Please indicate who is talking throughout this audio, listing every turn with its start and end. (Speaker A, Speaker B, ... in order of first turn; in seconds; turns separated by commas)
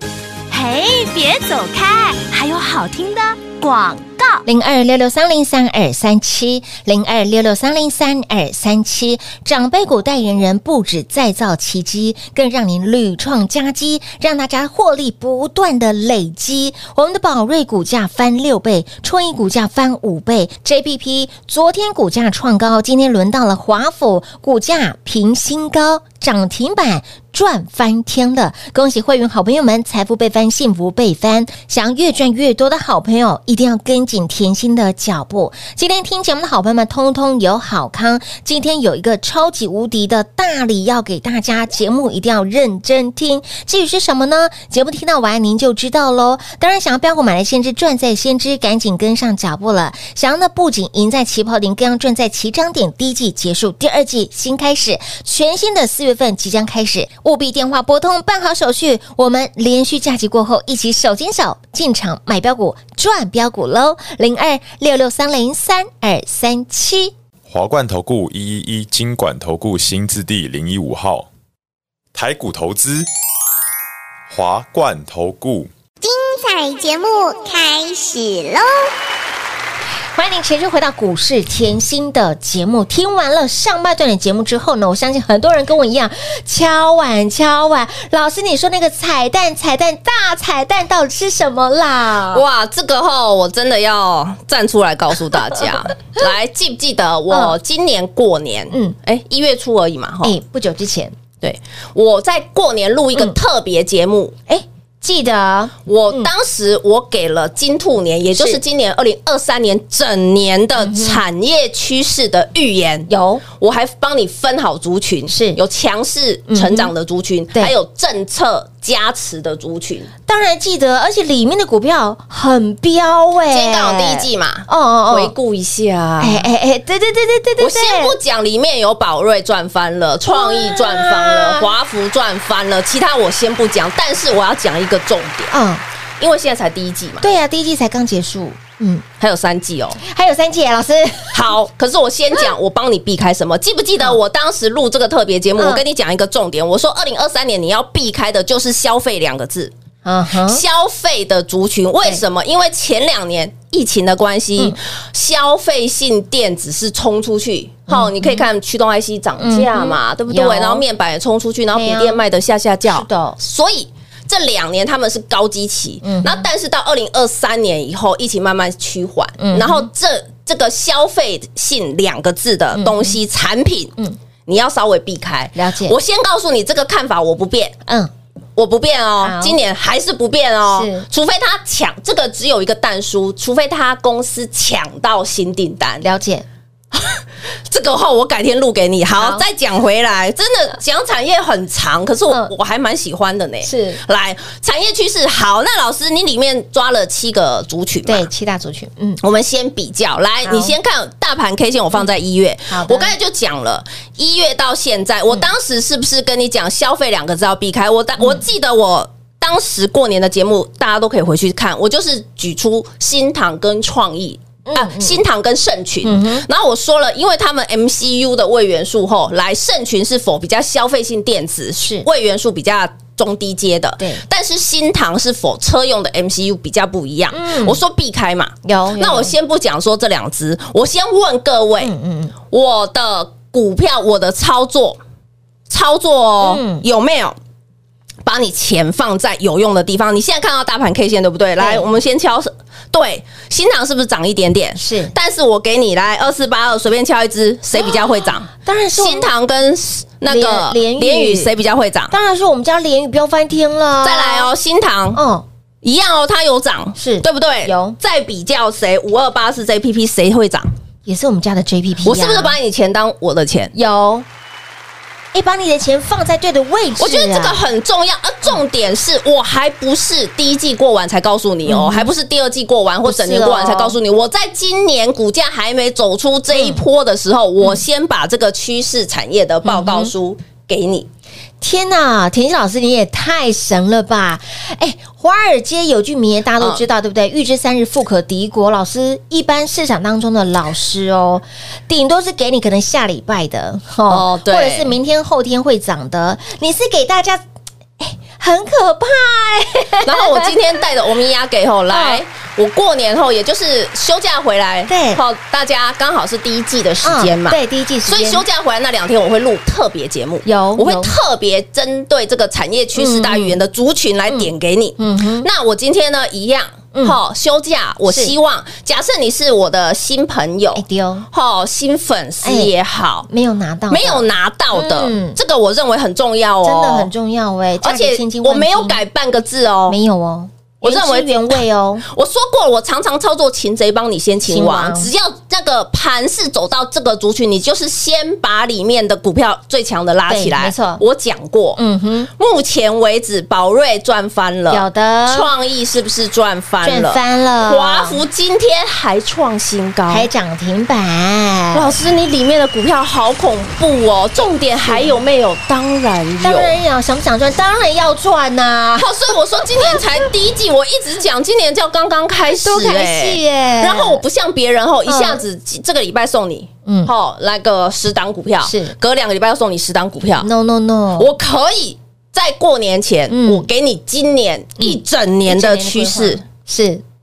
Speaker A: 0.5-4.4, Speaker B: 4.5-67.1, Speaker C: 67.5-71.3, Speaker C: 72.1-73.1, Speaker C: 74.3-75.7, Speaker D: 76.0-78.9, Speaker B: 80.2-92.4, Speaker E: 92.3-100.4, Speaker B: 97.3-97.6, Speaker B: 100.2-101.2, Speaker E: 101.4-104.4, Speaker B: 104.5-106.3, Speaker E: 105.9-120.1, Speaker B: 108.3-108.6, Speaker B: 110.8-111.2, Speaker B: 113.1-113.4, Speaker B: 115.3-115.6, Speaker B: 116.5-116.9, Speaker B: 120.3-125.3, Speaker E: 123.5-126.5, Speaker B: 126.2-128.2, Speaker E: 127.6-135.5, Speaker B: 130.3-131.7, Speaker B: 135.5-135.8, Speaker E: 136.2-137.3, Speaker B: 137.2-139.1, Speaker E: 139.2-140.0, Speaker B: 140.0-141.4, Speaker E: 141.3-149.7, Speaker B: 145.6-145.8, Speaker B: 150.1-150.6, Speaker E: 150.4-177.8, Speaker B: 157.9-158.4, Speaker B: 159.4-160.8, Speaker B: 161.7-162.2, Speaker B: 162.9-163.4, Speaker B: 166.0-166.5, Speaker B: 169.4-169.9, Speaker B: 172.7-173.2, Speaker B: 175.6-176.0, Speaker B: 177.9-178.1, Speaker E: 178.6-186.1, Speaker B: 179.2-179.6, Speaker B: 180.7-181.1, Speaker B: 186.0-186.5, Speaker E: 186.9-198.3, Speaker B: 189.2-189.4, Speaker B: 193.6-194.0, Speaker B: 198.1-199.2, Speaker E: 199.2-231.9, Speaker B: 200.4-200.8, Speaker B: 202.7-203.1, Speaker B: 214.7-215.2, Speaker B: 216.0-216.5, Speaker B: 221.8-222.1, Speaker B: 227.3-227.8, Speaker B: 228.6-229.3, Speaker B: 231.8-232.3, Speaker E: 232.5-235.0, Speaker E: 235.7-237.4, Speaker B: 236.4-236.8, Speaker E: 238.2-252.1, Speaker B: 241.6-241.9, Speaker B: 244.8-245.1, Speaker B: 248.6-249.3, Speaker B: 250.3-251.5, Speaker B: 252.1-254.5, Speaker E: 254.0-255.2, Speaker B: 255.1-255.5, Speaker E: 255.8-260.7, Speaker B: 257.0-258.0, Speaker B: 261.1-262.6, Speaker E: 262.0-263.7, Speaker B: 263.7-264.3, Speaker B: 265.3-267.6, Speaker E: 267.0-281.1, Speaker B: 271.6-272.1, Speaker B: 273.0-274.0, Speaker B: 276.5-276.8, Speaker B: 279.6-280.1, Speaker B: 281.6-297.4, Speaker E: 294.1-295.0, Speaker B: 298.0-300.6, Speaker E: 300.0-323.3, Speaker B: 301.9-302.2, Speaker B: 304.9-305.2, Speaker B: 307.0-308.4, Speaker B: 310.4-311.1, Speaker B: 312.9-313.6, Speaker B: 314.3-315.5, Speaker B: 318.1-318.3, Speaker B: 320.8-321.3, Speaker B: 322.4-322.7, Speaker B: 323.3-325.4, Speaker E: 323.9-327.1, Speaker B: 326.6-329.0, Speaker E: 327.8-330.0, Speaker B: 329.9-332.1, Speaker E: 330.8-341.8, Speaker B: 334.4-335.1, Speaker B: 340.3-341.0, Speaker B: 341.8-342.3, Speaker E: 342.4-350.3, Speaker B: 344.7-345.5, Speaker B: 346.8-348.2, Speaker B: 350.1-351.9, Speaker E: 351.7-356.7, Speaker B: 354.9-355.2, Speaker B: 356.4-360.1, Speaker E: 359.0-370.5, Speaker B: 362.6-364.2, Speaker B: 365.1-365.4, Speaker B: 366.9-367.1, Speaker B: 368.6-368.9, Speaker B: 370.4-371.3, Speaker E: 371.1-376.4, Speaker B: 373.3-373.7, Speaker B: 374.8-377.0